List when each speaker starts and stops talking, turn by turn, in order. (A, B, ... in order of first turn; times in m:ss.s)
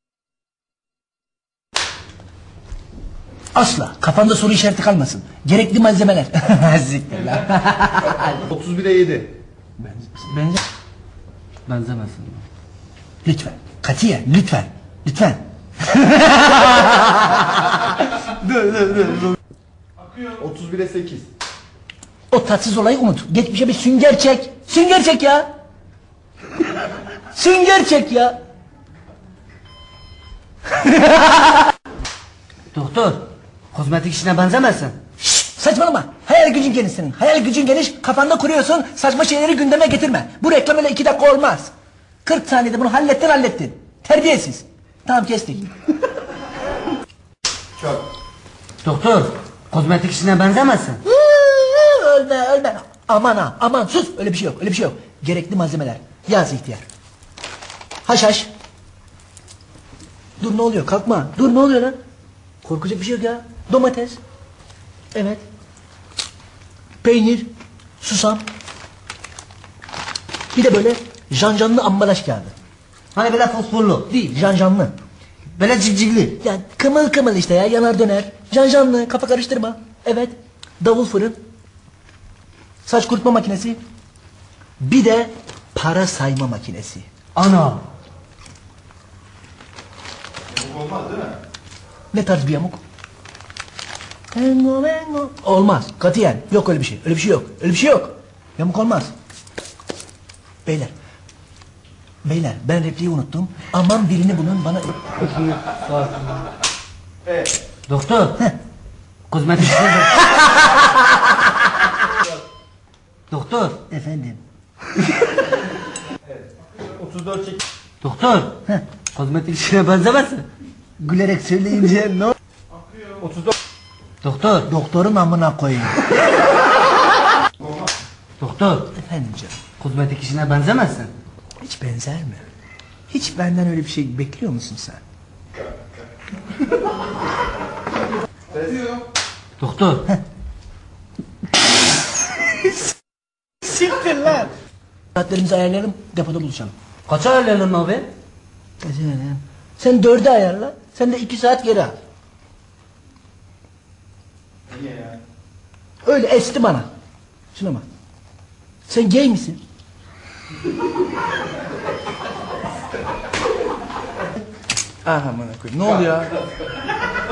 0:03.5-0:08.4 A
0:08.5-0:09.3 B
0:09.8-0:10.6 A
0:11.7-0:12.4 C
0:13.2-0:19.3 A
0:20.3-0:21.2 B
0:22.3-0:25.5 A
0:27.3-0:28.4 A
0:30.7-0:31.5 A
0:32.7-0:35.0 C
0:35.2-0:41.7 A
0:42.2-0:45.7 A
0:48.8-0:51.0 C
0:51.0-0:56.8 A
0:58.0-0:58.5 A
1:00.4-1:02.0 A
1:02.6-1:04.2 A
1:05.1-1:05.4 A
1:07.0-1:08.4 A
1:10.5-1:12.5 A
1:13.1-1:14.1 C
1:14.1-1:14.9 A
1:15.5-1:16.4 C
1:16.4-1:21.4 A
1:22.8-1:23.8 A
1:24.8-1:27.1 A
1:27.3-1:27.8 C
1:30.6-1:31.3 B
1:32.1-1:32.8 A
1:34.3-1:39.1 A
1:40.6-1:40.9 A
1:42.2-1:45.0 A
1:45.2-1:46.4 C
1:47.9-1:48.4 C
1:49.3-1:50.7 C
1:53.3-1:53.8 C
1:53.9-1:54.4 A
1:56.9-1:57.6 B
1:58.0-1:58.6 C
1:59.1-2:00.5 C
2:01.0-2:02.3 A
2:03.2-2:03.5 B
2:04.2-2:04.7 C
2:04.7-2:06.1 A
2:08.4-2:08.9 C
2:09.0-2:09.6 A
2:09.8-2:11.1 C
2:11.6-2:12.4 A
2:13.1-2:15.0 A
2:19.6-2:20.1 C
2:23.6-2:24.5 A
2:25.1-2:26.7 A
2:27.1-2:28.1 C
2:28.8-2:32.0 A
2:36.0-2:36.9 A
2:37.5-2:37.8 A
2:38.9-2:39.6 A
2:45.0-2:46.3 A